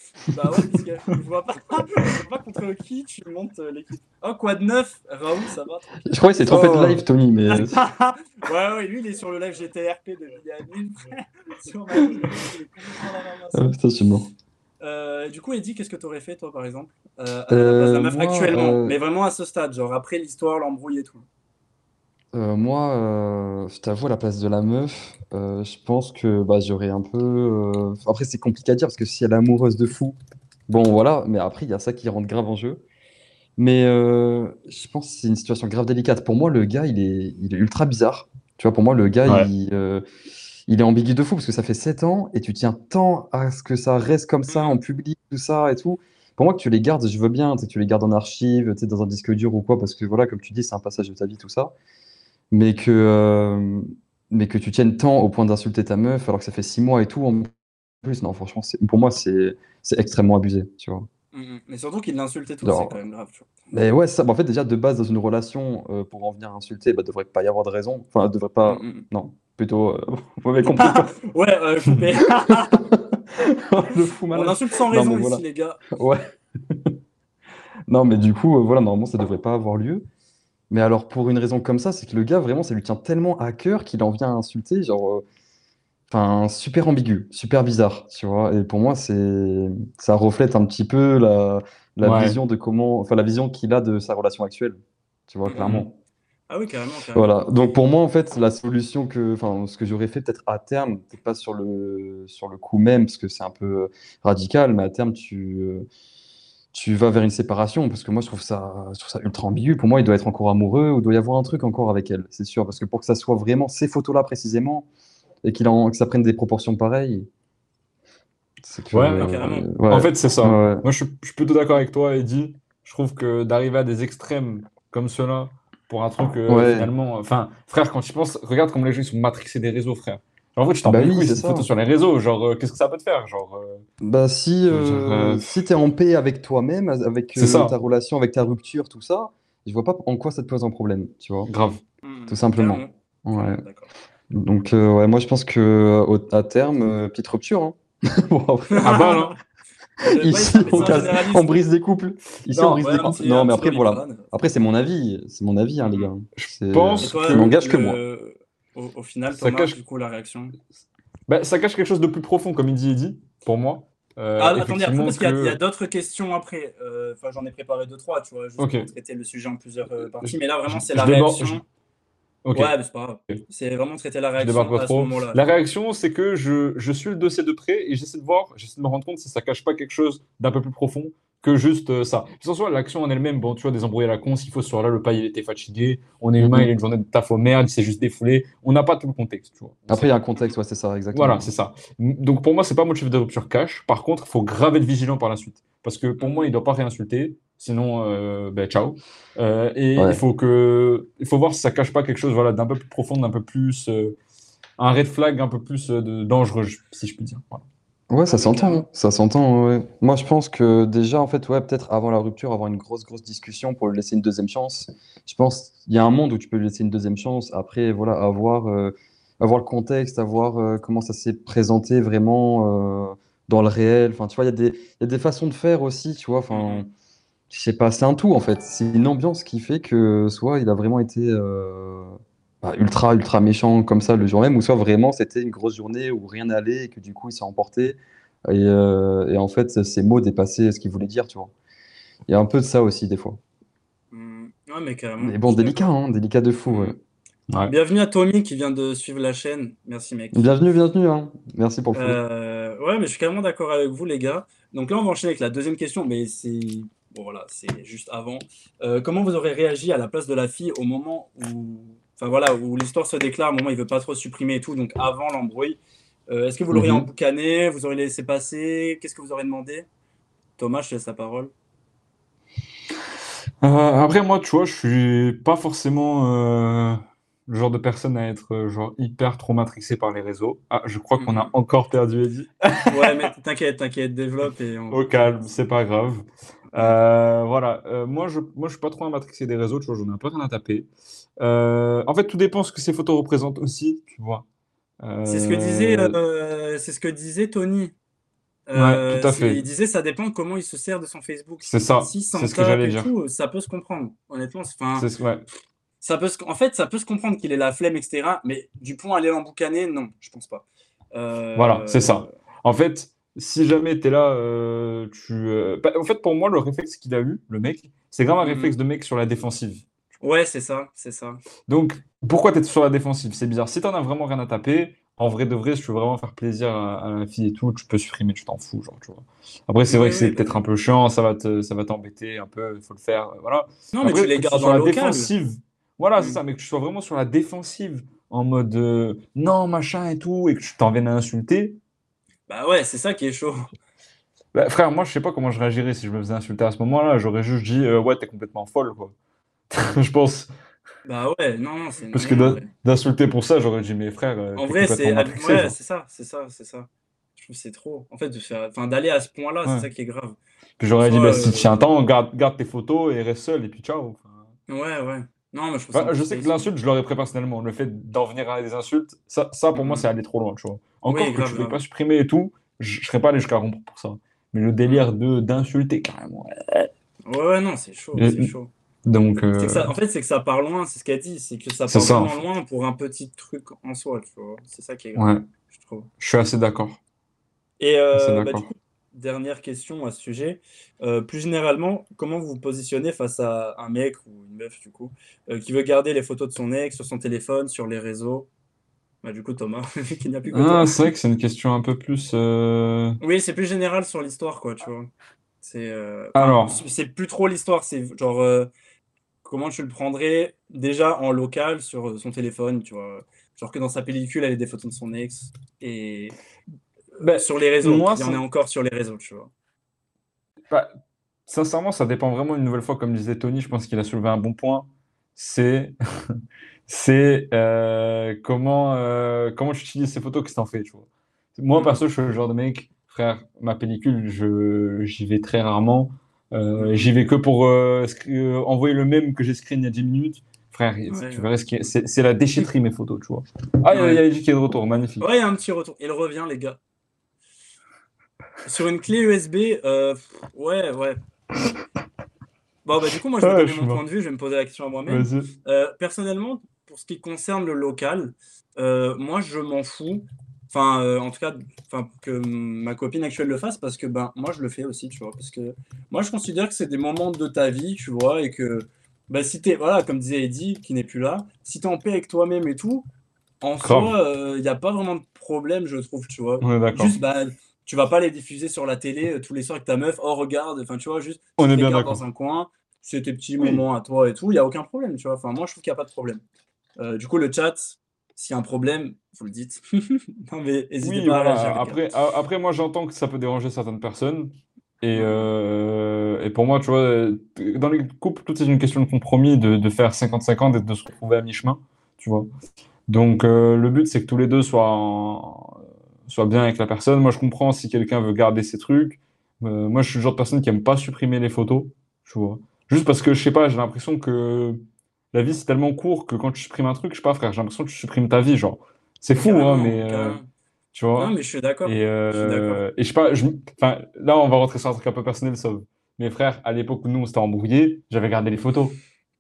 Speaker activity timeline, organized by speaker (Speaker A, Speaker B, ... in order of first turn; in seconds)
Speaker A: 0.3-6.7, 7.5-13.7, 14.8-21.2, 44.5-44.8, 61.3-63.5, 68.7-69.1, 70.6-72.9, 74.3-75.8, 95.5-95.8, 96.5-97.3, 119.1-119.7, 142.0-143.9, 148.7-149.4, 150.0-151.6, 152.5-154.3, 155.8-156.1, 157.0-160.6, 164.4-171.6, 172.6-175.4, 196.2-196.5, 208.3-208.9, 226.5-226.9, 244.1-245.9, 246.7-247.0, 247.7-250.5, 251.9-269.9, 270.6-271.5, 281.2-281.5, 282.9-285.0, 295.3-297.9, 298.7-305.1, 306.0-312.3, 318.4-318.8, 320.2-321.4, 329.9-330.6, 333.9-335.3, 342.5-343.7, 351.1-352.7, 354.6-360.4, 361.0-361.9, 364.7-366.7, 369.7-370.1, 371.1-371.8, 377.3-378.7, 379.6-386.1, 387.8-398.5, 399.2-401.1, 403.2-405.1, 405.6-408.7, 409.4-416.4, 417.2-419.5, 431.8-432.0, 436.8-437.1, 441.1-441.5, 443.9-444.2, 445.2-446.8, 448.6-451.2, 452.9-473.1, 473.6-486.4, 487.0-492.0, 495.1-495.5, 519.4-520.5, 521.2-522.8
Speaker B: 6.0-7.8, 13.5-14.3, 17.5-19.0, 22.3-30.2, 30.7-32.8, 33.6-40.0, 40.7-51.7, 52.5-57.5, 58.0-61.1, 62.6-63.0, 63.7-71.2, 72.4-77.0, 77.9-80.1, 80.7-85.2, 86.1-95.9, 97.1-105.9, 106.7-114.9, 115.4-117.3, 118.6-120.9, 126.5-126.9, 130.8-131.7, 134.0-141.5, 142.3-143.6, 144.3-149.2, 150.1-158.0, 186.4-186.7, 189.9-191.5, 200.0-200.2, 208.1-226.9, 227.5-241.5, 242.3-243.4, 245.2-247.0, 250.3-252.2
Speaker C: 6.5-7.0, 92.0-92.4, 118.9-133.8, 134.7-135.5, 137.4-137.8, 141.5-141.8, 148.8-149.3, 150.7-151.1, 156.4-157.5, 159.3-159.8, 161.3-165.6, 168.6-168.9, 170.2-171.6, 172.4-172.8, 174.4-190.1, 191.1-204.2, 204.8-207.6, 266.7-267.1, 273.6-283.3, 284.9-290.9, 291.4-294.4, 295.0-296.2, 298.7-299.6, 301.6-303.1, 305.0-305.5, 311.6-320.2, 321.7-341.8, 344.5-349.1, 349.7-350.5, 352.1-355.8, 360.8-364.5, 365.9-376.9, 378.2-378.5, 379.1-379.9, 381.9-382.4, 385.1-385.4, 386.2-387.0, 388.1-388.7, 400.5-403.2, 406.4-406.8, 417.2-418.4, 421.5-426.3, 426.9-445.3, 453.4-454.0, 455.1-455.5, 473.8-474.1, 476.6-477.2, 481.6-482.2, 491.0-502.5, 503.1-514.8, 515.3-520.4, 520.9-521.3, 521.9-529.0